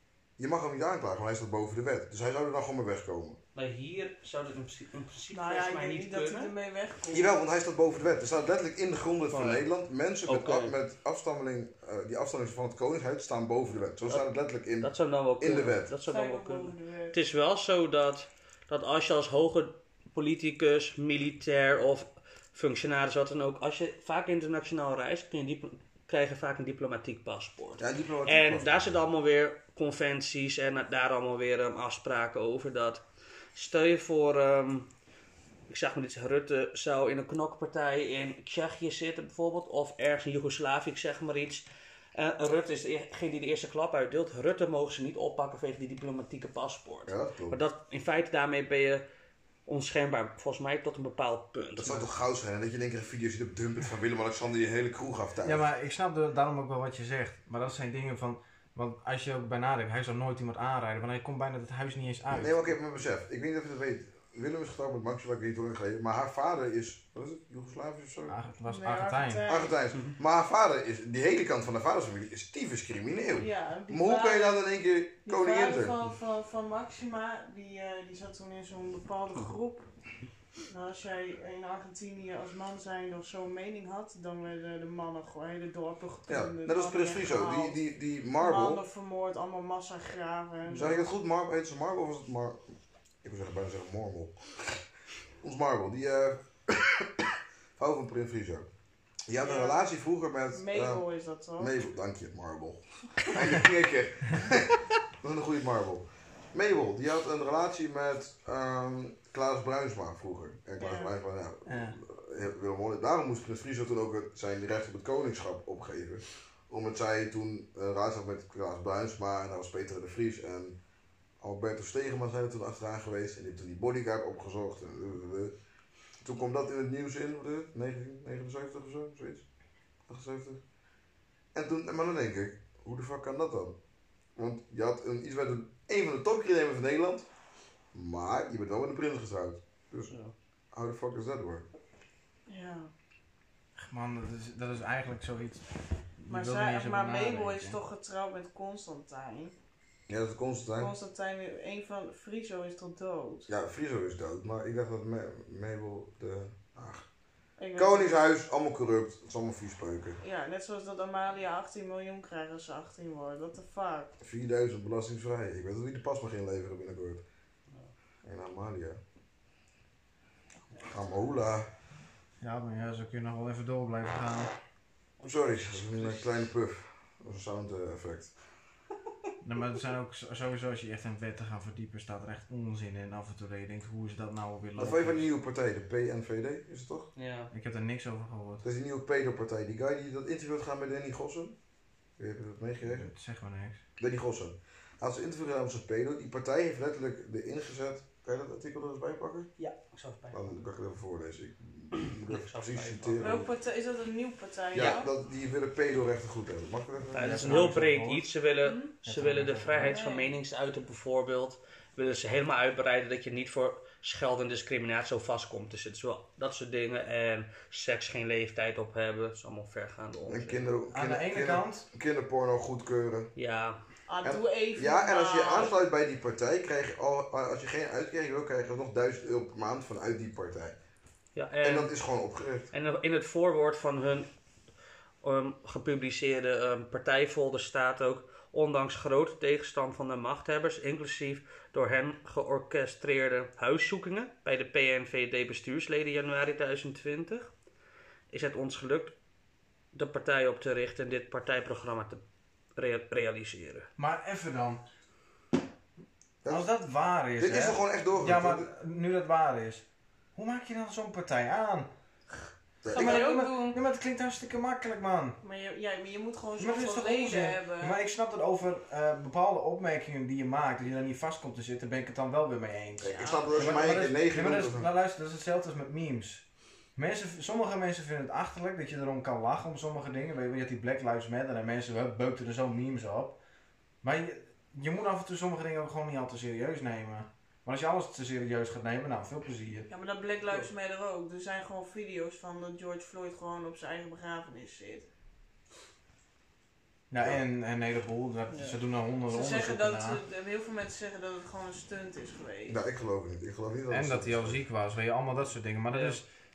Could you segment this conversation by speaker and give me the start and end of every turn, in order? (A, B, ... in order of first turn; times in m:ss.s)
0:00.4-0:03.4 A
0:03.5-0:06.5 B
0:05.3-0:07.3 C
0:07.1-0:15.9 A
0:09.3-0:09.6 B
0:10.2-0:10.8 B
0:14.1-0:33.0 B
0:16.1-0:17.2 C
0:27.8-0:29.1 A
0:33.5-0:34.9 B
0:35.7-0:41.6 B
0:42.1-0:49.0 B
0:47.0-0:47.6 A
0:49.6-0:52.1 B
0:51.8-0:55.6 A
0:55.4-1:02.6 D
1:02.3-1:08.3 A
1:08.3-1:09.4 D
1:08.7-1:09.7 C
1:09.5-1:16.0 A
1:13.3-1:14.6 C
1:15.2-1:19.9 C
1:20.7-1:27.8 C
1:26.3-1:28.8 A
1:28.4-1:31.1 C
1:30.6-1:34.8 A
1:35.4-1:38.7 A
1:39.3-1:41.0 A
1:39.4-1:39.9 C
1:40.5-1:41.8 C
1:41.6-2:00.8 A
1:50.8-1:51.1 C
1:51.7-1:52.0 D
2:01.4-2:05.5 A
2:06.2-2:09.4 A
2:10.1-2:10.6 A
2:11.5-2:13.8 A
2:14.4-2:17.3 A
2:17.9-2:20.1 A
2:20.7-2:21.7 A
2:22.5-2:22.9 C
2:23.8-2:25.6 D
2:26.2-2:27.8 D
2:26.3-2:29.5 C
2:30.1-2:30.9 A
2:30.8-2:33.5 C
2:33.5-2:37.0 A
2:37.6-2:38.2 C
2:37.8-2:40.2 A
2:40.2-2:44.1 C
2:44.2-2:47.2 A
2:48.2-2:49.0 A
2:50.8-2:51.7 A
2:52.4-2:54.5 D
2:55.2-2:56.4 B
2:55.2-2:58.3 A
2:59.4-3:05.3 D
3:04.8-3:07.1 A
3:07.2-3:07.5 B
3:07.5-3:08.6 D
3:08.6-3:11.5 A
3:12.2-3:13.1 A
3:12.8-3:13.8 D
3:14.0-3:19.5 A
3:19.6-3:20.6 B
3:20.3-3:23.5 A
3:22.0-3:23.4 B
3:23.2-3:25.1 C
3:24.7-3:27.8 A
3:24.7-3:25.0 B
3:27.1-3:40.6 B
3:27.2-3:28.2 D
3:29.0-3:29.9 D
3:29.8-3:30.3 C
3:40.2-3:43.3 A
3:40.9-3:41.8 D
3:43.4-3:43.8 B
3:44.1-3:45.7 C
3:44.2-3:50.8 A
3:51.3-3:51.9 B
3:51.6-3:52.7 A
3:52.7-3:54.3 B
3:55.2-4:07.5 B
4:08.3-4:09.1 B
4:09.9-4:12.2 B
4:12.8-4:13.9 B
4:14.0-4:14.8 D
4:16.5-4:19.8 D
4:17.4-4:18.7 A
4:20.4-4:21.9 D
4:22.8-4:23.2 A
4:22.9-4:23.8 C
4:22.9-4:25.4 D
4:25.4-4:28.0 C
4:26.6-4:36.4 D
4:33.0-4:34.9 A
4:33.0-4:33.8 C
4:37.0-4:43.4 D
4:44.0-4:49.9 D
4:49.9-4:55.0 C
4:57.1-5:00.2 D
4:59.3-5:02.8 C
5:02.7-5:04.6 A
5:03.9-5:06.2 D
5:05.9-5:06.2 B